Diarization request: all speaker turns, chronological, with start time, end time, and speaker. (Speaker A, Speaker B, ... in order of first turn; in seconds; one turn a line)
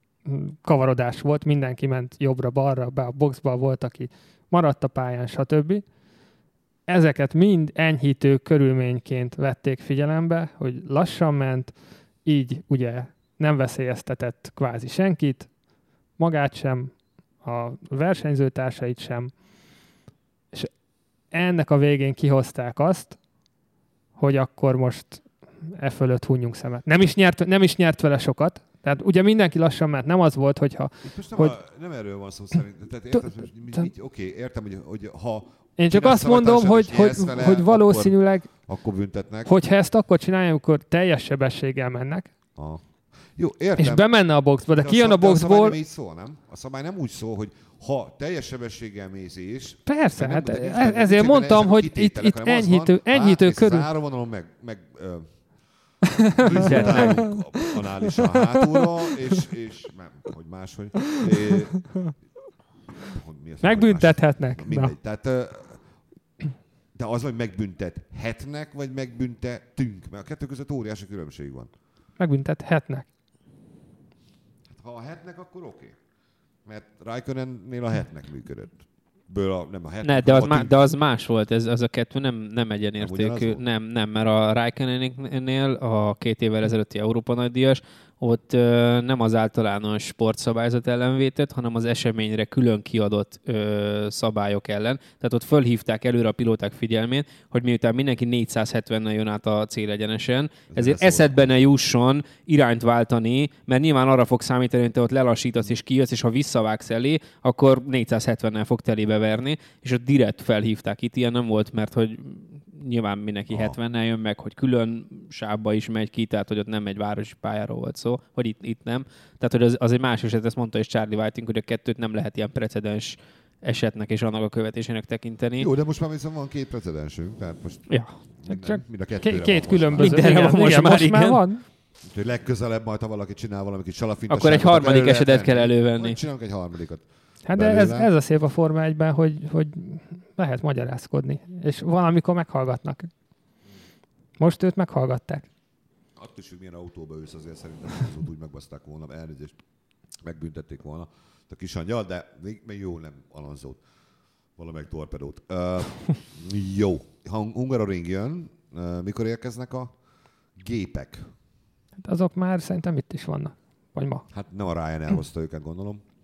Speaker A: 0.2-5.8
Speaker A: 6.9-11.7
Speaker A: 12.2-15.5
Speaker A: 16.2-19.3
Speaker A: 21.3-23.2
Speaker A: 24.2-31.6
Speaker B: 31.0-39.5
Speaker A: 35.8-38.7
Speaker A: 39.5-42.3
Speaker B: 42.5-44.0
Speaker A: 43.8-45.8
Speaker B: 44.7-62.1
Speaker A: 49.9-53.9
Speaker A: 56.3-57.7
Speaker C: 56.6-57.3
Speaker B: 63.1-65.8
Speaker A: 63.6-64.9
Speaker B: 66.9-71.7
Speaker A: 72.2-73.0
Speaker B: 74.7-76.0
Speaker B: 76.6-80.9
Speaker C: 80.0-125.7
Speaker B: 83.0-83.6
Speaker B: 100.7-101.5
Speaker B: 113.5-113.8
Speaker B: 125.6-130.4
Speaker C: 127.9-128.2
Speaker A: 128.5-131.6
Speaker C: 130.0-131.4
Speaker B: 132.0-138.1
Speaker C: 134.3-136.2
Speaker A: 137.4-143.1
Speaker A: 144.4-145.5
Speaker B: 146.2-149.6
Speaker B: 150.2-153.8
Speaker B: 154.6-159.9
Speaker B: 160.6-161.3
Speaker A: 162.0-164.2
Speaker B: 164.3-166.0